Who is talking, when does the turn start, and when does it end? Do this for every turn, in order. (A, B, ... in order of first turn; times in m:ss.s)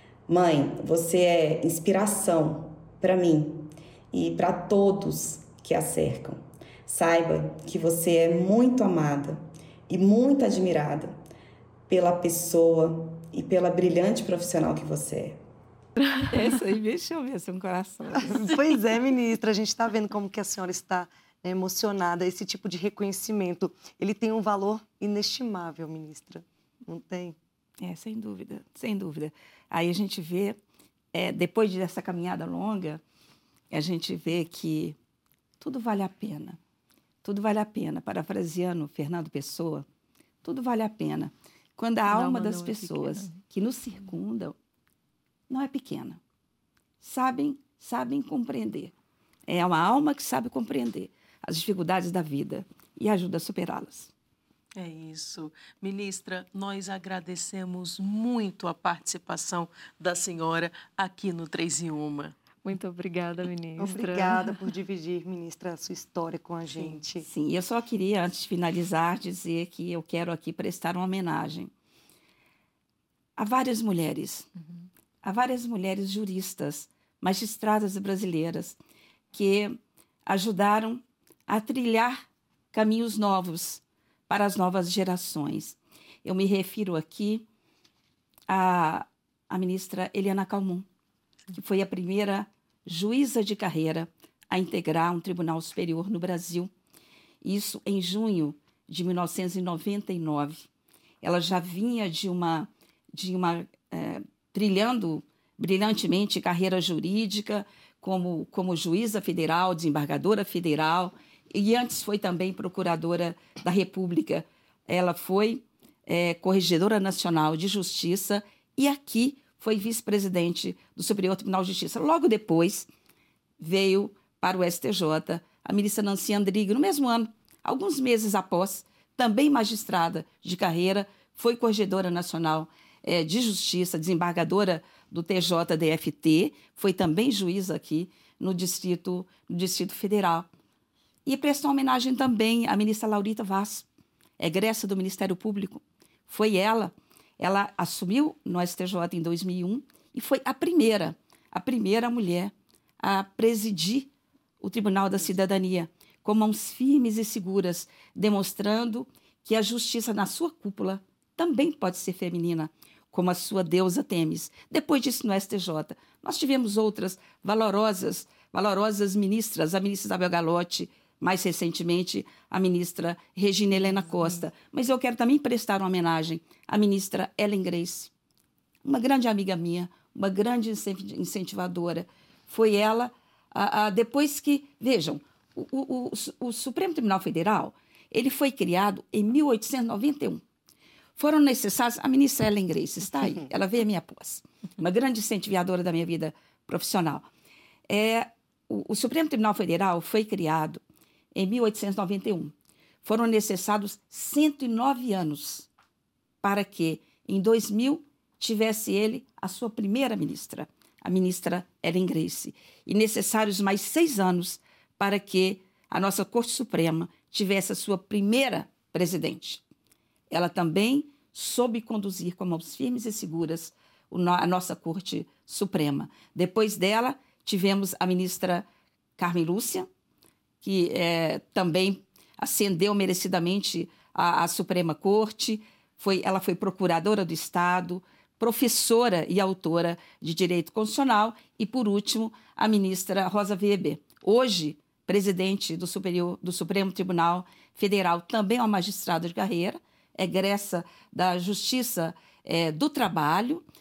0:00.3-0:11.2 A
0:11.9-0:15.4 A
0:16.2-0:18.5 B
0:18.2-0:27.4 C
0:27.8-0:30.6 B
0:31.1-0:33.0 B
0:33.7-0:35.0 B
0:35.6-0:36.6 B
0:37.2-0:39.8 B
0:40.4-0:44.6 B
0:42.1-0:43.4 D
0:45.5-0:46.2 B
0:47.0-0:48.9 B
0:49.5-0:54.1 B
0:54.8-1:02.4 E
1:02.6-1:04.6 D
1:03.8-1:07.3 C
1:07.2-1:11.7 B
1:13.4-1:14.5 B
1:15.2-1:18.8 B
1:19.3-1:22.2 B
1:22.7-1:27.4 B
1:28.5-1:30.8 B
1:31.5-1:36.7 B
1:37.4-1:40.7 B
1:41.2-2:02.9 B
2:03.6-2:20.5 B
2:21.3-2:23.9 B
2:24.4-2:34.1 B
2:34.6-2:58.1 B
2:58.8-3:10.4 B
3:11.2-3:17.3 B
3:17.9-3:20.8 B
3:21.3-3:25.7 B
3:26.4-3:39.6 B
3:40.3-3:48.7 B
3:49.2-3:49.9 B
3:50.6-4:13.6 B